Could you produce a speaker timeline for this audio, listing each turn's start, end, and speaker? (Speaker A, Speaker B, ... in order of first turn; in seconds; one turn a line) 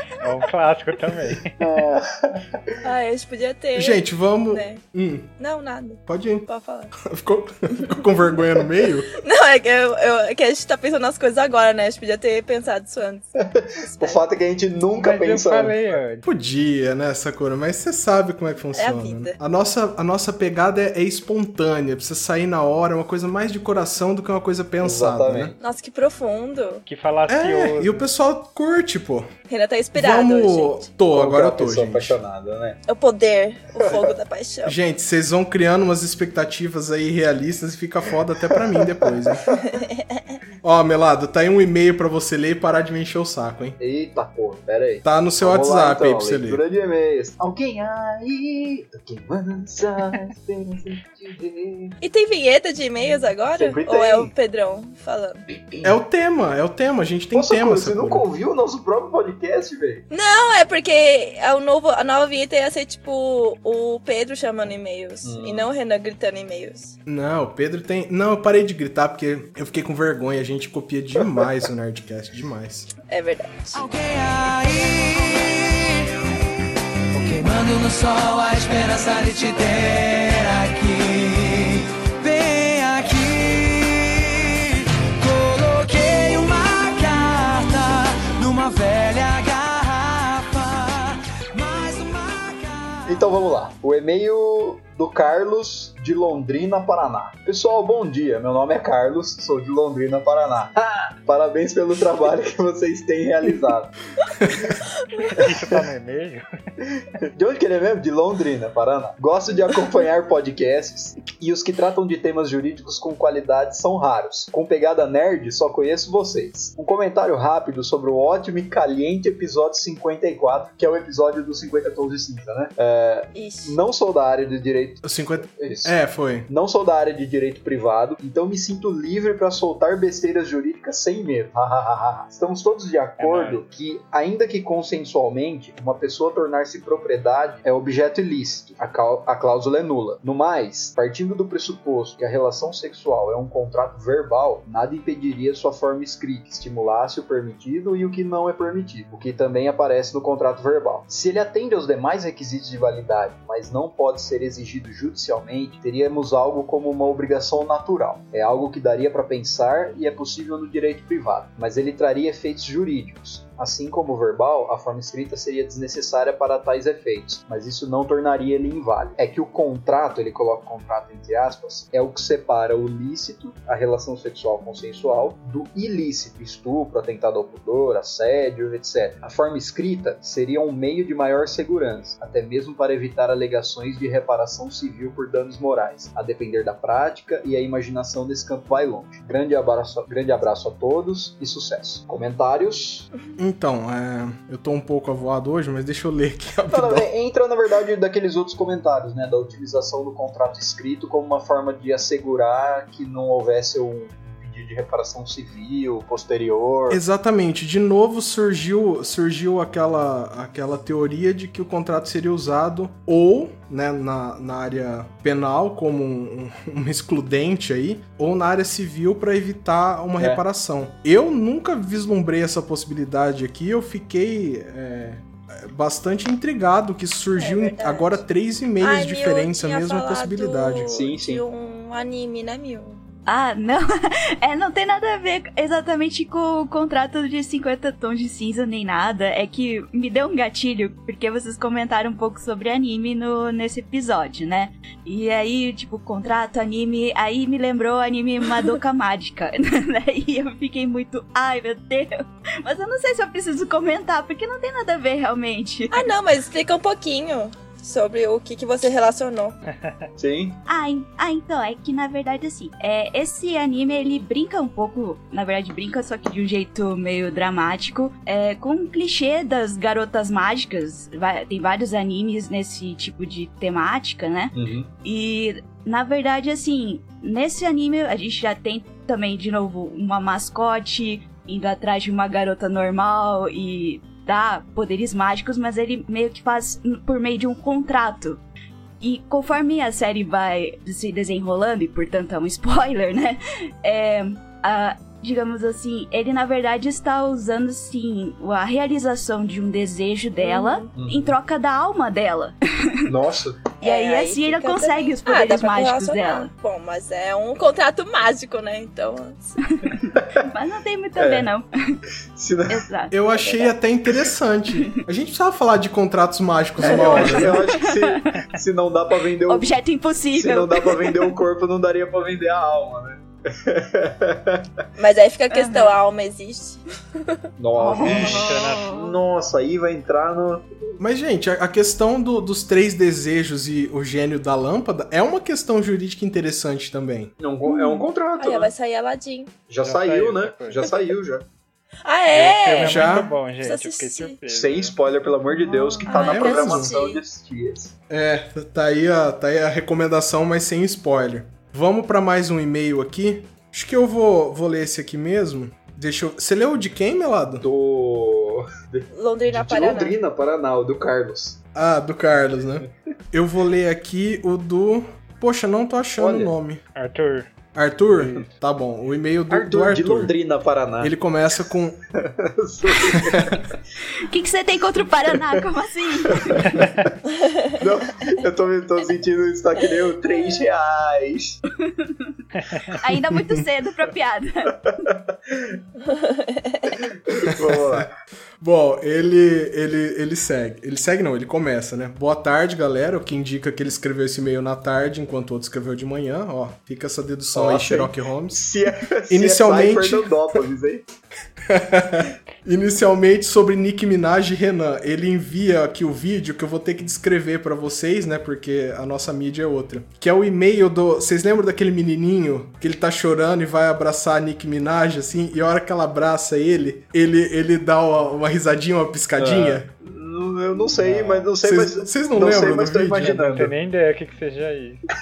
Speaker A: 0.2-1.7
Speaker B: 1.6-2.7
Speaker C: 2.8-4.8
Speaker D: 3.8-5.3
Speaker C: 5.4-7.0
Speaker D: 6.1-9.1
Speaker C: 9.2-13.2
Speaker B: 13.4-16.0
Speaker C: 13.8-14.2
Speaker A: 14.9-16.3
Speaker D: 16.2-25.6
Speaker C: 18.7-19.4
Speaker B: 24.8-25.6
Speaker C: 25.6-26.9
Speaker A: 26.9-28.1
Speaker D: 27.3-29.3
Speaker C: 29.5-30.9
Speaker D: 29.9-32.2
Speaker B: 31.1-32.8
Speaker C: 32.9-34.8
Speaker B: 33.8-34.1
Speaker D: 34.6-39.5
Speaker B: 38.5-39.8
Speaker C: 39.7-40.4
Speaker D: 40.6-43.8
Speaker B: 43.8-52.0
Speaker D: 45.0-46.6
Speaker C: 52.0-55.4
Speaker B: 53.5-54.3
Speaker B: 55.5-56.0
Speaker D: 55.8-58.3
Speaker B: 57.3-60.1
Speaker C: 60.1-67.0
Speaker B: 65.2-65.7
Speaker D: 67.1-72.9
Speaker C: 73.1-73.8
Speaker E: 73.7-76.2
Speaker E: 77.2-93.2
Speaker B: 93.1-104.0
Speaker A: 105.2-106.5
Speaker B: 107.2-125.9
Speaker C: 123.3-123.8
Speaker D: 125.0-126.5
Speaker B: 126.5-193.1
Speaker A: 133.2-133.6
Speaker D: 193.4-197.1
Speaker B: 196.7-207.0
Speaker D: 206.9-230.9
Speaker C: 227.4-228.2
Speaker C: 228.8-233.0
Speaker B: 230.9-231.4
Speaker F: 233.3-256.1
Speaker C: 255.9-259.6
Speaker B: 260.2-260.6
Speaker F: 260.7-288.4
Speaker B: 274.5-274.9
Speaker F: 289.0-303.1
Speaker C: 300.4-300.9
Speaker B: 300.9-301.3
Speaker B: 303.1-303.6
Speaker F: 303.8-306.5
Speaker C: 303.8-309.6
Speaker F: 309.7-312.0
Speaker B: 310.1-310.4
Speaker B: 311.2-311.5
Speaker B: 312.3-312.9
Speaker F: 312.7-313.2
Speaker D: 313.1-317.6
Speaker B: 316.8-319.7
Speaker F: 316.9-318.4
Speaker F: 319.5-321.4
Speaker B: 320.3-324.7
Speaker C: 325.0-326.8
Speaker F: 325.5-325.9
Speaker B: 327.6-330.6
Speaker F: 327.8-329.1
Speaker A: 328.0-329.0
Speaker D: 331.0-337.3
Speaker B: 337.4-338.7
Speaker F: 337.7-338.1
Speaker C: 338.4-339.6
Speaker B: 339.7-341.5
Speaker A: 339.8-340.9
Speaker C: 342.1-344.4
Speaker A: 342.3-345.0
Speaker D: 342.8-343.3
Speaker B: 344.5-347.9
Speaker F: 345.5-346.6
Speaker C: 346.1-347.2
Speaker D: 346.2-346.9
Speaker D: 348.1-357.7
Speaker B: 357.6-361.6
Speaker C: 359.1-360.2
Speaker D: 361.8-366.8
Speaker B: 366.2-366.5
Speaker A: 366.9-367.5
Speaker D: 367.7-370.3
Speaker A: 368.1-368.4
Speaker B: 369.5-371.1
Speaker D: 371.0-372.0
Speaker B: 372.2-373.7
Speaker D: 373.3-373.5
Speaker F: 374.3-376.9
Speaker B: 376.3-376.9
Speaker C: 377.4-377.8
Speaker B: 377.8-381.6
Speaker F: 381.8-382.3
Speaker F: 382.9-384.8
Speaker B: 384.9-385.8
Speaker C: 386.1-386.9
Speaker B: 387.1-388.1
Speaker D: 387.6-388.1
Speaker D: 388.6-398.6
Speaker B: 397.5-401.1
Speaker D: 399.3-400.4
Speaker D: 401.7-419.9
Speaker B: 419.4-423.7
Speaker A: 420.9-421.5
Speaker D: 421.6-423.4
Speaker A: 423.3-425.0